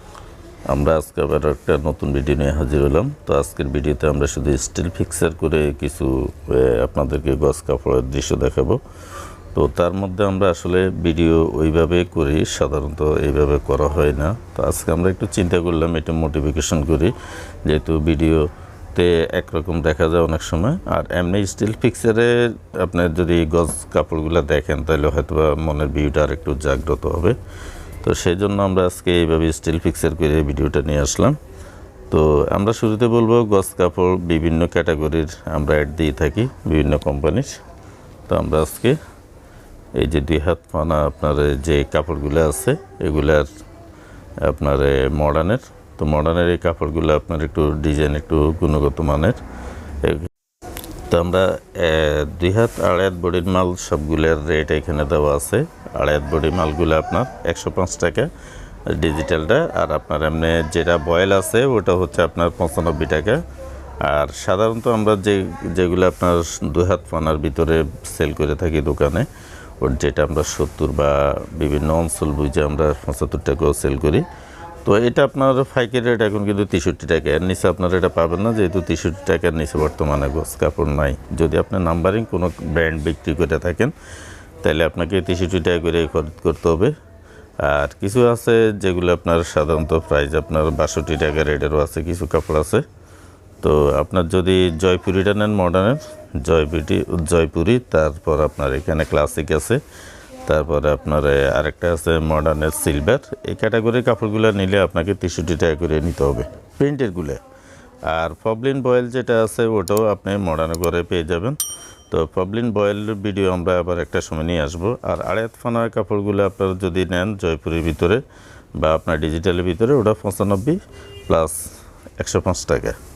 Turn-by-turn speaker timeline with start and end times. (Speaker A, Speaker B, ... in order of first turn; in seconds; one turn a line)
Speaker A: 0.7-8.8
Speaker A: 9.5-27.4
Speaker A: 28.0-31.4
Speaker A: 32.1-37.6
Speaker A: 38.3-39.0
Speaker A: 39.9-43.5
Speaker A: 44.4-49.4
Speaker A: 50.0-50.3
Speaker A: 51.1-58.3
Speaker A: 58.9-63.4
Speaker A: 64.0-69.3
Speaker A: 69.8-74.2
Speaker A: 74.8-83.9
Speaker A: 84.6-86.9
Speaker A: 87.6-92.8
Speaker A: 93.6-99.8
Speaker A: 100.4-107.4
Speaker A: 108.0-111.6
Speaker A: 112.1-118.2
Speaker A: 118.8-123.0